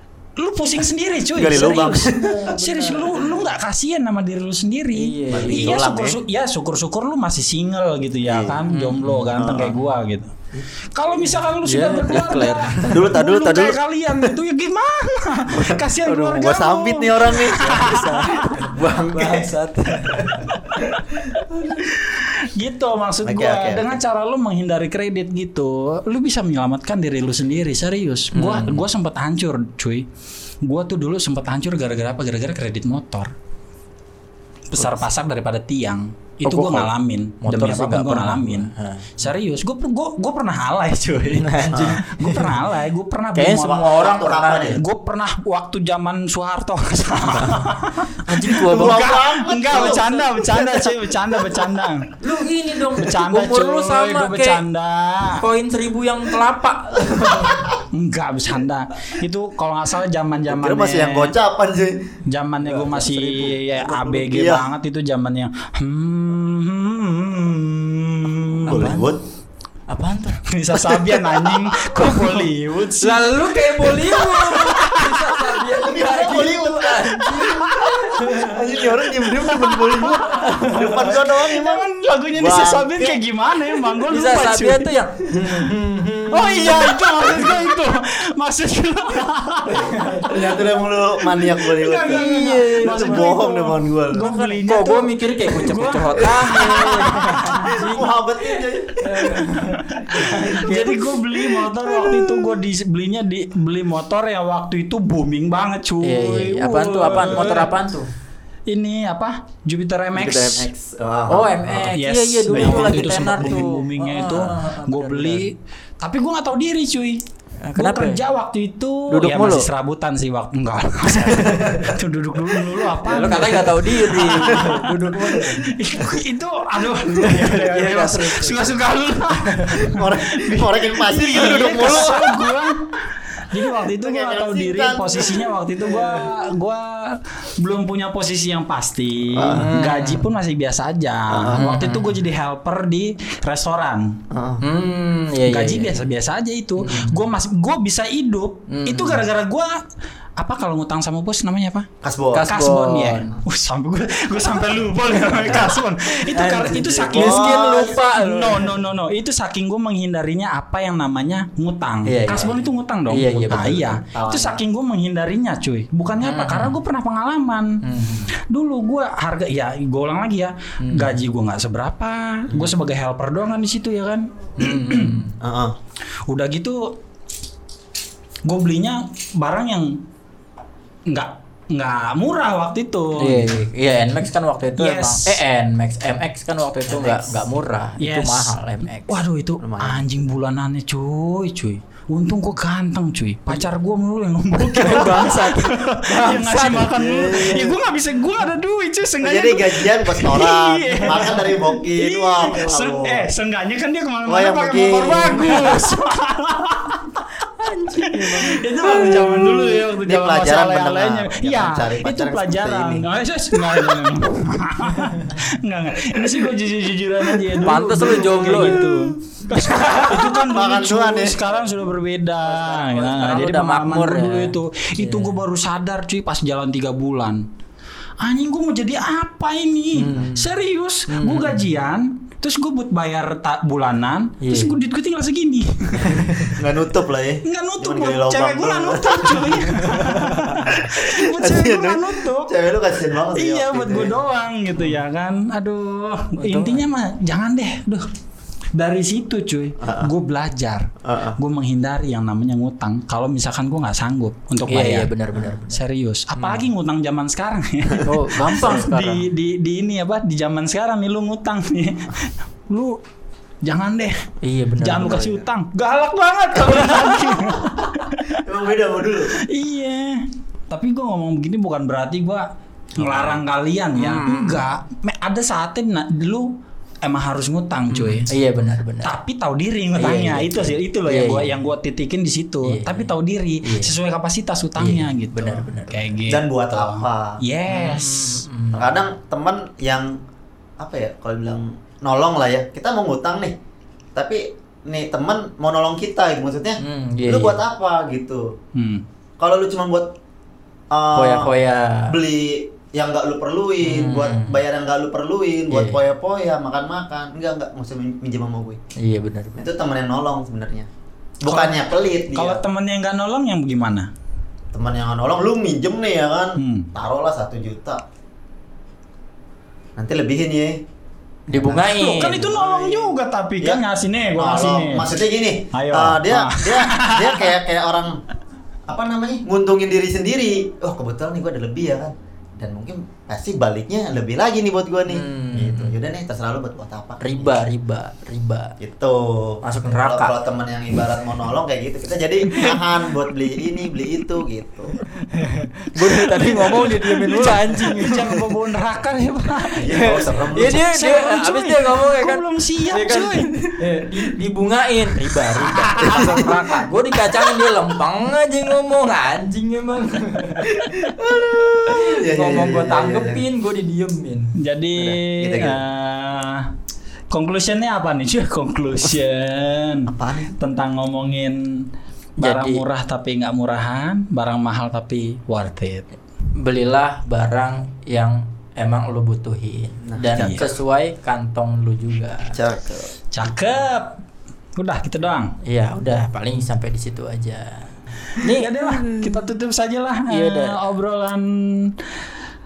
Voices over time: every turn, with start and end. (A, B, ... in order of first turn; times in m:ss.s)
0:00.4-0:10.4 A
0:01.3-0:02.4 B
0:01.7-0:03.5 C
0:04.9-0:05.8 C
0:05.3-0:06.2 B
0:08.2-0:08.6 B
0:08.7-0:09.3 C
0:09.3-0:09.8 B
0:10.9-0:18.5 A
0:11.6-0:13.1 C
0:12.9-0:14.3 B
0:15.5-0:19.5 B
0:17.5-0:21.7 C
0:20.0-0:20.5 B
0:21.1-0:21.4 B
0:21.8-0:30.1 A
0:23.2-0:24.0 B
0:28.3-0:28.8 C
0:30.6-0:33.3 A
0:34.7-0:43.8 A
0:36.5-0:39.2 C
0:41.4-0:42.6 C
0:41.7-0:42.0 B
0:43.4-0:44.8 C
0:43.6-0:44.8 B
0:44.7-0:52.2 A
0:48.2-0:49.1 C
0:48.6-0:51.8 B
0:52.2-0:54.6 C
0:53.0-0:55.4 A
0:55.4-0:57.8 C
0:57.2-0:57.7 B
0:57.9-1:01.4 A
1:00.5-1:04.7 B
1:02.3-1:09.0 A
1:08.7-1:09.1 C
1:08.7-1:09.2 B
1:09.9-1:10.4 C
1:10.4-1:15.6 A
1:11.8-1:18.8 C
1:15.8-1:23.2 B
1:17.3-1:18.3 A
1:19.4-1:20.2 A
1:20.2-1:21.2 C
1:21.0-1:24.9 A
1:24.1-1:27.7 C
1:25.3-1:25.7 B
1:26.3-1:30.4 A
1:30.0-1:30.3 C
1:30.2-1:34.3 B
1:31.4-1:37.8 A
1:32.1-1:33.3 C
1:34.1-1:38.1 C
1:36.5-1:37.1 B
1:37.6-1:39.5 B
1:39.0-1:41.1 C
1:39.6-1:47.7 A
1:40.1-1:40.9 B
1:42.0-1:42.3 C
1:46.0-1:48.1 C
1:48.7-1:50.7 A
1:50.2-1:51.9 B
1:51.3-1:55.5 C
1:51.9-1:57.2 A
1:52.5-1:53.6 B
1:57.6-1:58.2 C
1:57.8-2:04.9 A
1:59.1-1:59.7 C
2:01.3-2:01.8 C
2:03.0-2:05.7 C
2:04.1-2:05.4 B
2:05.6-2:24.2 A
2:07.2-2:10.0 C
2:09.8-2:12.5 B
2:11.4-2:12.4 C
2:13.8-2:16.3 B
2:19.3-2:19.7 B
2:19.6-2:20.3 C
2:21.3-2:21.7 B
2:21.6-2:22.2 C
2:24.3-2:24.6 B
2:24.6-2:26.1 C
2:25.5-2:29.8 A
2:26.8-2:27.2 C
2:28.7-2:29.2 C
2:30.4-2:31.9 A
2:32.0-2:32.5 B
2:32.3-2:33.4 C
2:32.4-2:47.8 A
2:35.3-2:38.8 C
2:36.8-2:38.0 B
2:42.1-2:44.0 C
2:44.1-2:44.6 B
2:46.2-2:46.8 C
2:47.8-2:48.3 C
2:48.4-2:55.2 A
2:50.8-2:51.2 C
2:52.5-2:52.8 B
2:54.6-2:55.4 C
2:55.4-2:55.8 B
2:56.3-2:57.0 A
2:58.4-3:00.0 A
3:01.1-3:03.6 A
3:03.2-3:09.2 C
3:04.8-3:05.4 A
3:06.9-3:07.4 B
3:08.0-3:08.6 A
3:09.1-3:27.2 A
3:09.6-3:10.3 B
3:14.6-3:17.6 C
3:17.0-3:17.8 B
3:19.2-3:23.3 B
3:24.3-3:25.8 B
3:25.5-3:25.8 C
3:27.5-3:29.8 C
3:28.0-3:47.5 A
3:30.0-3:33.1 B
3:37.6-3:38.9 C
3:39.8-3:41.4 B
3:42.5-3:45.4 C
3:48.2-3:56.3 A
3:50.0-3:50.5 C
3:51.1-3:51.6 C
3:54.4-3:54.8 C
3:56.0-3:56.6 C
3:56.5-4:00.0 B
3:57.4-4:02.5 A
4:00.0-4:00.2 C
4:00.5-4:04.2 B
4:03.3-4:08.1 A
4:06.4-4:06.9 C
4:08.8-4:15.1 A
4:09.8-4:10.1 B
4:11.0-4:11.4 B
4:14.7-4:15.8 C
4:15.7-4:23.0 A
4:16.4-4:16.7 C
4:18.0-4:19.3 C
4:23.6-4:28.4 A
4:24.4-4:25.4 C
4:28.4-4:29.4 B
4:29.3-4:38.3 A
4:33.0-4:33.3 B
4:34.0-4:34.3 B
4:34.0-4:34.5 C
4:37.9-4:39.2 C
4:39.0-4:48.4 A
4:40.0-4:41.6 C
4:42.6-4:44.0 C
4:44.8-4:46.2 C
4:46.3-4:47.4 B
4:47.7-4:49.0 C
4:48.7-4:50.2 B
4:50.8-4:53.6 B
4:54.2-4:58.5 B
4:56.8-4:57.6 C
4:58.8-4:59.0 A
4:59.4-5:00.1 B
5:00.9-5:01.5 B
5:01.2-5:02.2 C
5:02.1-5:08.8 B
5:03.8-5:04.6 C
5:05.7-5:06.0 C
5:09.0-5:09.6 C
5:09.6-5:10.9 B
5:11.4-5:12.6 B
5:11.5-5:11.8 A
5:12.3-5:14.1 A
5:14.7-5:18.0 B
5:16.6-5:16.9 A
5:20.0-5:20.8 B
5:21.5-5:23.1 B
5:21.5-5:22.6 C
5:21.8-5:25.1 A
5:24.4-5:28.2 B
5:25.7-5:27.5 A
5:28.9-5:37.6 B
5:35.1-5:35.9 C
5:37.2-5:38.8 C
5:38.8-5:44.9 B
5:39.6-5:40.4 C
5:42.5-5:42.8 C
5:45.2-5:48.4 C
5:46.0-5:50.0 A
5:49.8-5:50.8 B
5:49.9-6:01.1 C
5:50.7-5:53.5 A
5:55.6-5:56.9 A
5:56.0-5:56.4 B
6:00.7-6:03.4 B
6:01.9-6:04.5 C
6:04.6-6:06.7 A
6:05.0-6:05.8 B
6:07.3-6:16.0 A
6:10.1-6:10.5 B
6:12.4-6:12.8 C
6:16.6-6:22.6 C
6:20.0-6:20.3 B
6:20.4-6:20.7 A
6:22.5-6:23.2 B
6:23.3-6:24.2 A
6:24.8-6:25.5 A
6:25.6-6:29.2 C
6:28.4-6:32.1 A
6:30.3-6:30.8 C